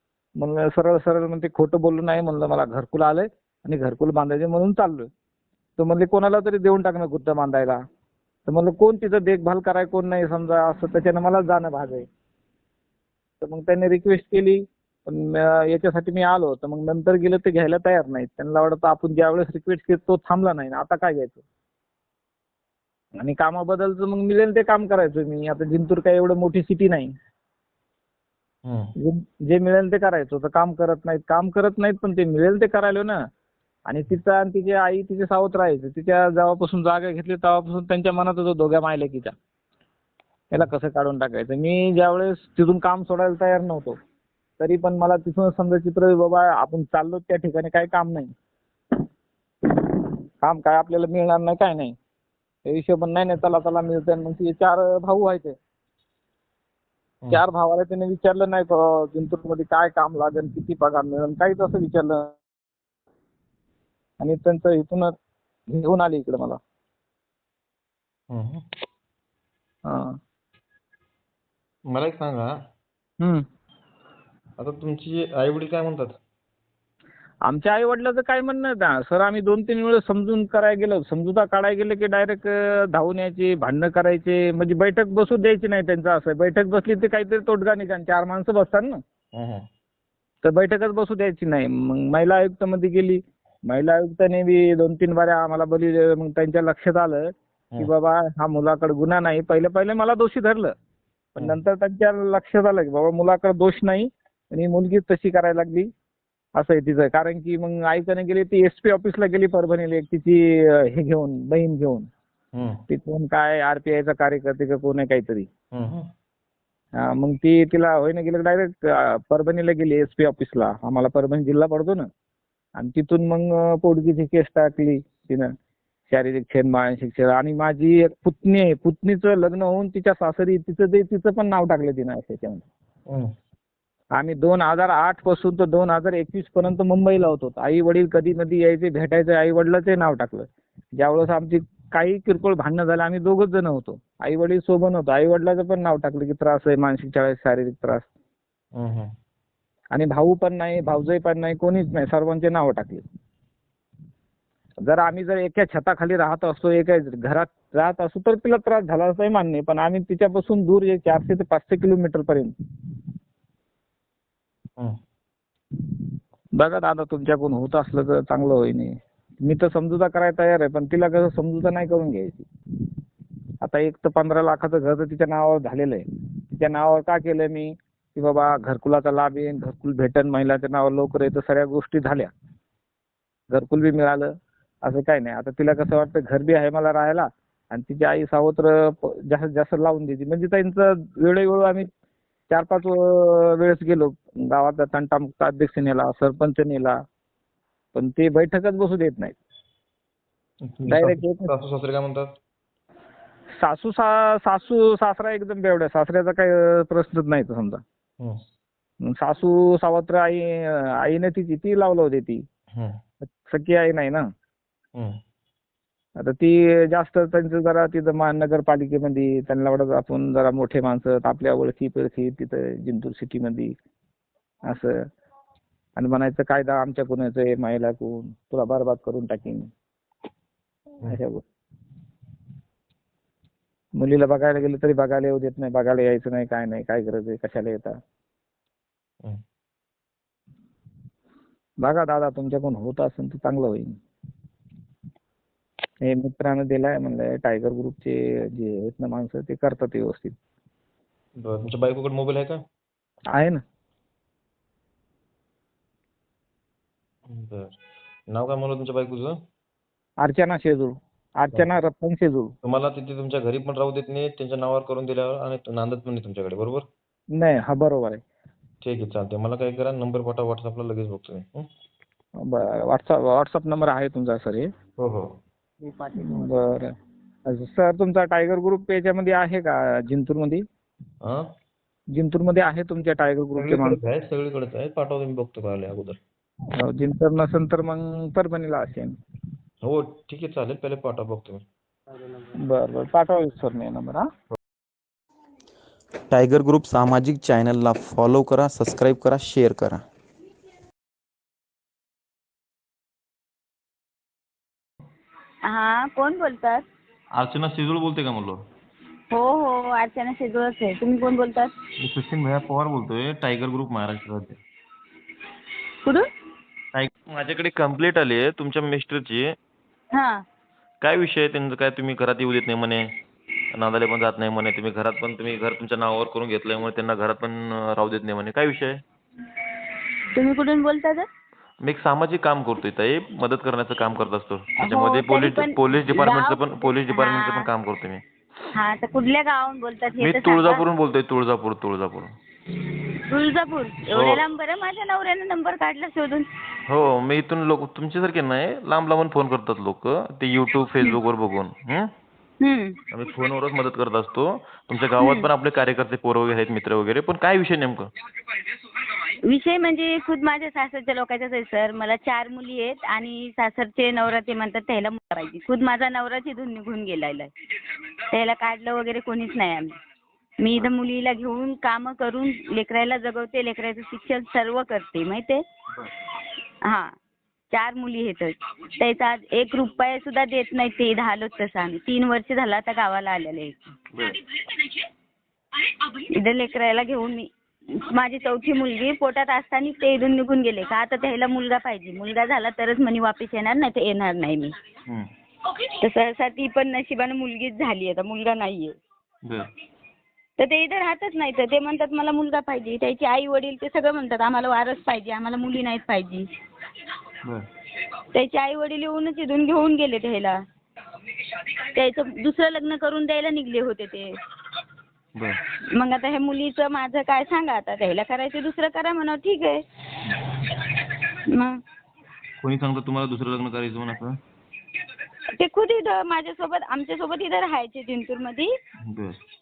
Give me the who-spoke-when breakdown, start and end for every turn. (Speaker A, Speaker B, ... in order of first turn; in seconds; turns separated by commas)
Speaker A: 0.4-5.1, Speaker A: 5.8-7.8, Speaker A: 8.5-12.1, Speaker A: 13.4-21.4, Speaker A: 23.2-27.1, Speaker B: 28.7-28.9, Speaker A: 29.0-33.2, Speaker A: 33.9-39.3, Speaker A: 40.5-44.0, Speaker A: 44.6-48.3, Speaker A: 50.4-51.9, Speaker A: 52.6-55.5, Speaker A: 57.3-62.4, Speaker A: 64.2-65.1, Speaker A: 65.7-66.6, Speaker B: 68.3-68.6, Speaker A: 69.9-70.2, Speaker B: 71.9-72.5, Speaker A: 73.2-73.4, Speaker B: 74.6-76.2, Speaker A: 77.5-89.0, Speaker B: 89.3-89.7, Speaker A: 90.4-100.7, Speaker A: 101.3-105.9, Speaker A: 106.5-112.1, Speaker B: 112.5-112.8, Speaker A: 112.9-115.5, Speaker B: 115.7-116.1, Speaker A: 117.0-122.1, Speaker A: 122.8-125.5, Speaker A: 126.1-132.6, Speaker A: 134.2-148.1, Speaker B: 148.8-149.1, Speaker A: 149.9-153.0, Speaker A: 154.8-162.5, Speaker A: 166.6-172.5, Speaker A: 173.6-182.3, Speaker A: 183.5-184.3, Speaker A: 184.8-191.9, Speaker A: 192.5-197.0, Speaker A: 197.9-199.3, Speaker B: 200.7-202.3, Speaker A: 200.9-201.5, Speaker A: 203.6-207.8, Speaker A: 209.0-212.4, Speaker A: 213.4-214.2, Speaker A: 216.2-223.7, Speaker A: 224.7-225.1, Speaker A: 226.0-229.7, Speaker A: 231.0-231.4, Speaker A: 234.0-237.9, Speaker A: 241.8-244.0, Speaker A: 246.0-250.3, Speaker B: 251.4-252.6, Speaker A: 253.3-253.6, Speaker B: 257.3-257.7, Speaker B: 258.3-259.4, Speaker A: 260.2-262.5, Speaker B: 262.6-266.9, Speaker A: 267.3-268.2, Speaker B: 268.8-271.7, Speaker A: 272.4-274.7, Speaker B: 275.0-275.3, Speaker A: 276.1-276.9, Speaker A: 277.5-280.6, Speaker A: 282.1-284.0, Speaker B: 283.6-286.2, Speaker A: 286.8-289.1, Speaker B: 289.8-291.6, Speaker A: 292.6-294.2, Speaker C: 296.3-300.0, Speaker D: 305.6-306.9, Speaker B: 307.4-308.6, Speaker D: 309.3-311.7, Speaker B: 312.0-314.6, Speaker B: 316.9-319.5, Speaker D: 320.1-320.4, Speaker B: 321.0-323.0, Speaker B: 323.7-329.0, Speaker D: 330.3-331.3, Speaker B: 331.8-338.2, Speaker D: 334.8-337.7, Speaker D: 338.7-340.9, Speaker B: 340.2-342.3, Speaker D: 342.8-346.5, Speaker B: 346.9-352.1, Speaker D: 352.6-353.0, Speaker B: 353.1-358.1, Speaker D: 355.2-355.5, Speaker D: 359.2-367.5, Speaker D: 368.3-370.0, Speaker D: 370.6-375.6, Speaker D: 376.8-377.1, Speaker D: 377.7-385.0, Speaker B: 384.1-384.4, Speaker D: 385.8-394.7, Speaker D: 395.6-398.9, Speaker D: 400.6-406.5, Speaker D: 408.3-410.6, Speaker D: 411.4-414.4, Speaker D: 415.9-419.8, Speaker D: 420.7-421.8, Speaker B: 422.6-424.4, Speaker D: 425.6-428.7, Speaker B: 429.0-429.4